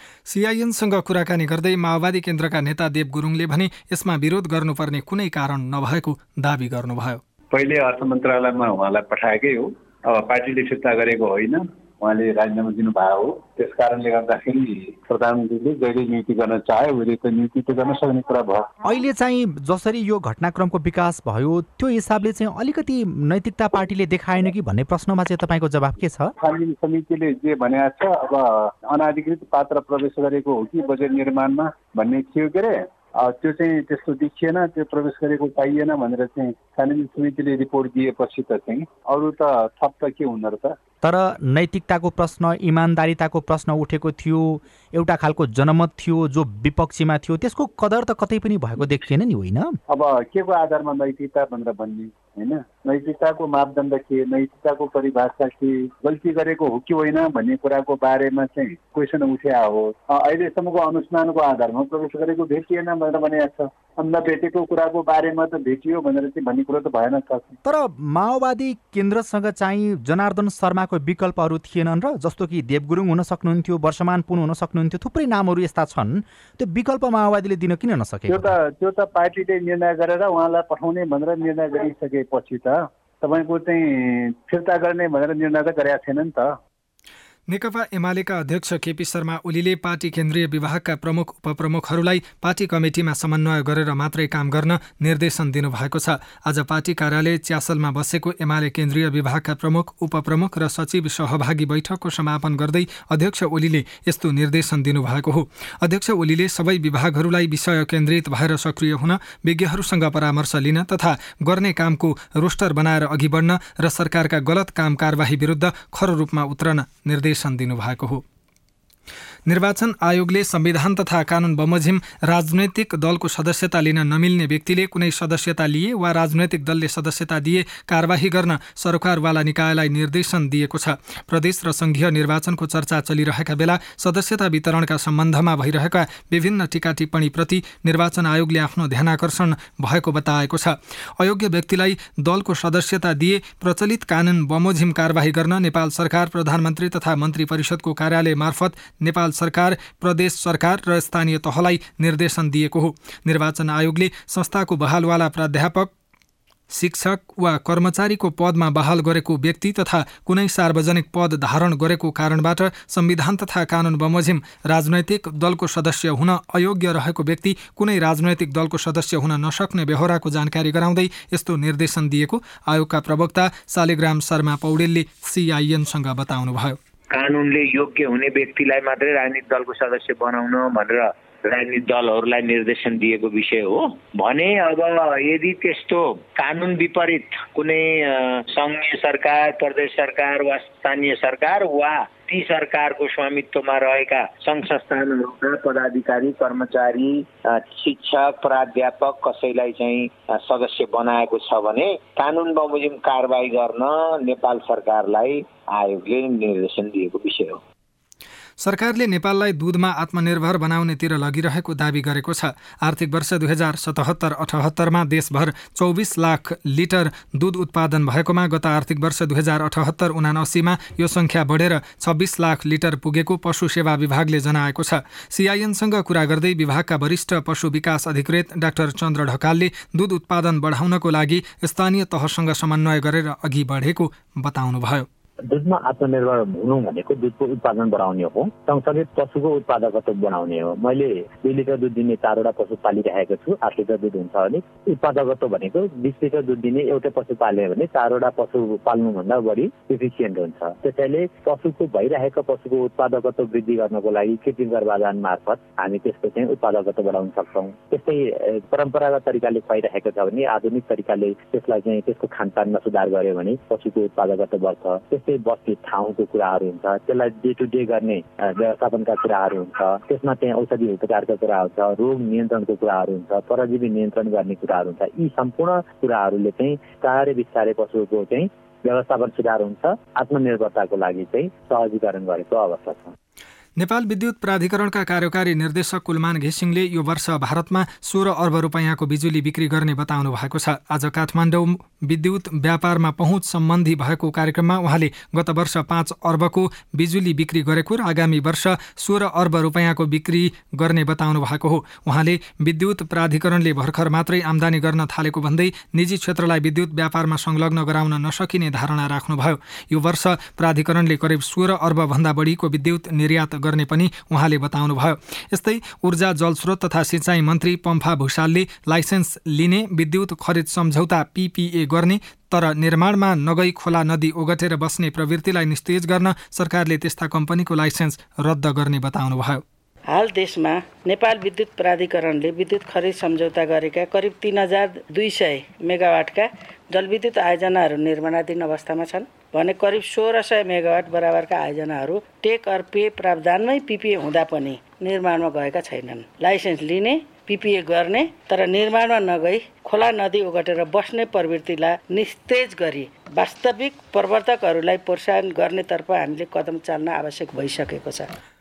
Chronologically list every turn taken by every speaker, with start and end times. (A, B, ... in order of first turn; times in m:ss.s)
0:00.3-0:07.2 A
0:07.5-0:18.7 B
0:18.8-0:26.3 C
0:26.4-0:40.8 B
0:41.0-0:49.8 C
0:49.9-1:07.6 B
1:07.6-1:18.6 C
1:18.3-1:26.5 B
1:27.5-1:58.2 A
1:59.5-2:35.9 A
2:36.7-2:56.8 A
2:57.1-3:27.6 D
3:28.6-3:55.0 A
3:55.5-4:43.1 E
4:43.8-5:29.6 A
5:30.1-5:58.3 F